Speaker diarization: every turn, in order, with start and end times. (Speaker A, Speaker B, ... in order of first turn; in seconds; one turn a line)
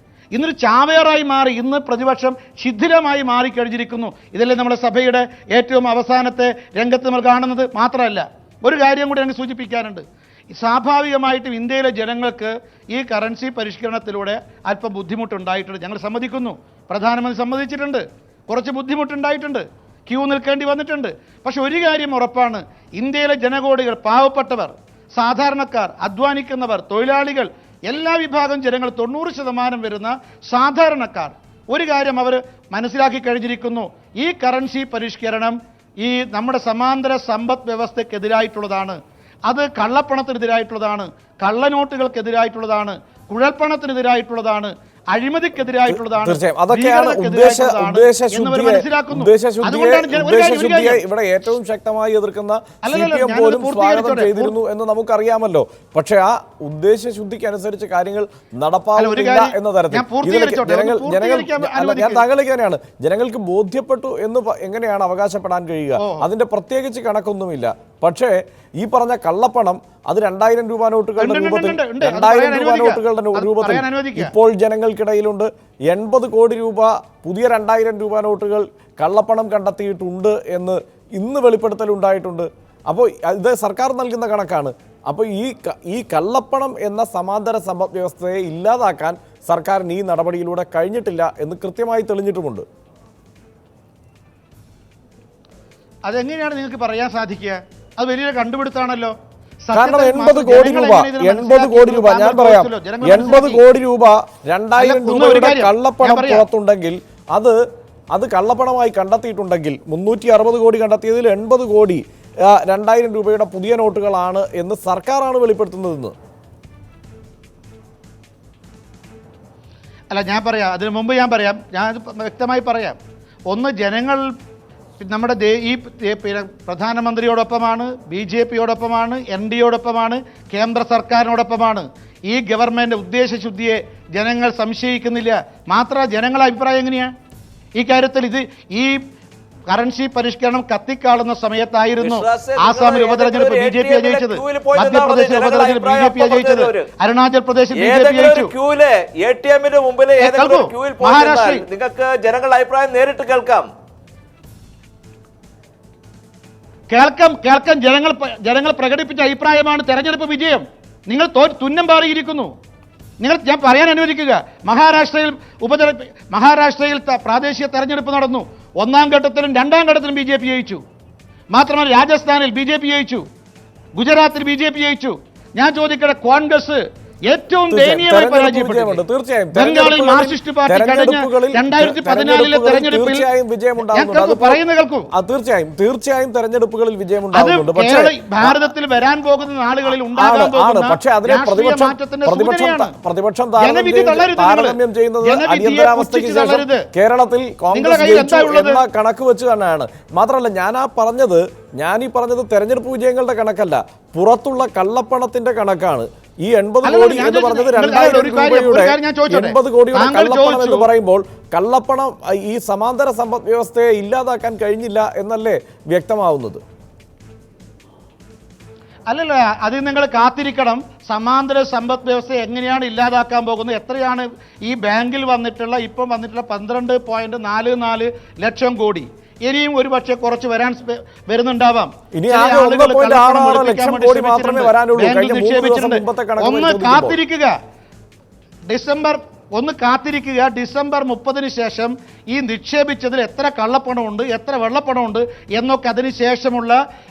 Speaker A: 0.3-51.0
Speaker B: 45.9-92.6
Speaker A: 52.8-54.5
Speaker A: 59.0-62.2
Speaker A: 66.0-66.2
Speaker A: 71.2-74.3
Speaker A: 96.1-99.1
Speaker A: 99.7-103.6
Speaker B: 99.7-107.6
Speaker A: 104.8-106.5
Speaker B: 108.1-116.1
Speaker A: 120.1-123.0
Speaker A: 123.5-124.3
Speaker A: 125.0-137.1
Speaker A: 137.8-139.0
Speaker A: 139.7-148.5
Speaker C: 142.0-146.9
Speaker C: 147.7-153.7
Speaker A: 150.2-151.6
Speaker A: 156.9-162.5
Speaker A: 163.2-170.8
Speaker A: 171.5-173.2
Speaker A: 173.9-179.0
Speaker B: 177.7-184.6
Speaker A: 179.5-183.2
Speaker A: 183.8-185.1
Speaker B: 185.1-188.7
Speaker A: 187.3-192.9
Speaker B: 190.1-216.6
Speaker A: 193.6-196.8
Speaker A: 197.7-198.8
Speaker A: 206.8-210.9
Speaker A: 219.1-237.5
Speaker B: 232.2-237.2
Speaker A: 238.7-246.8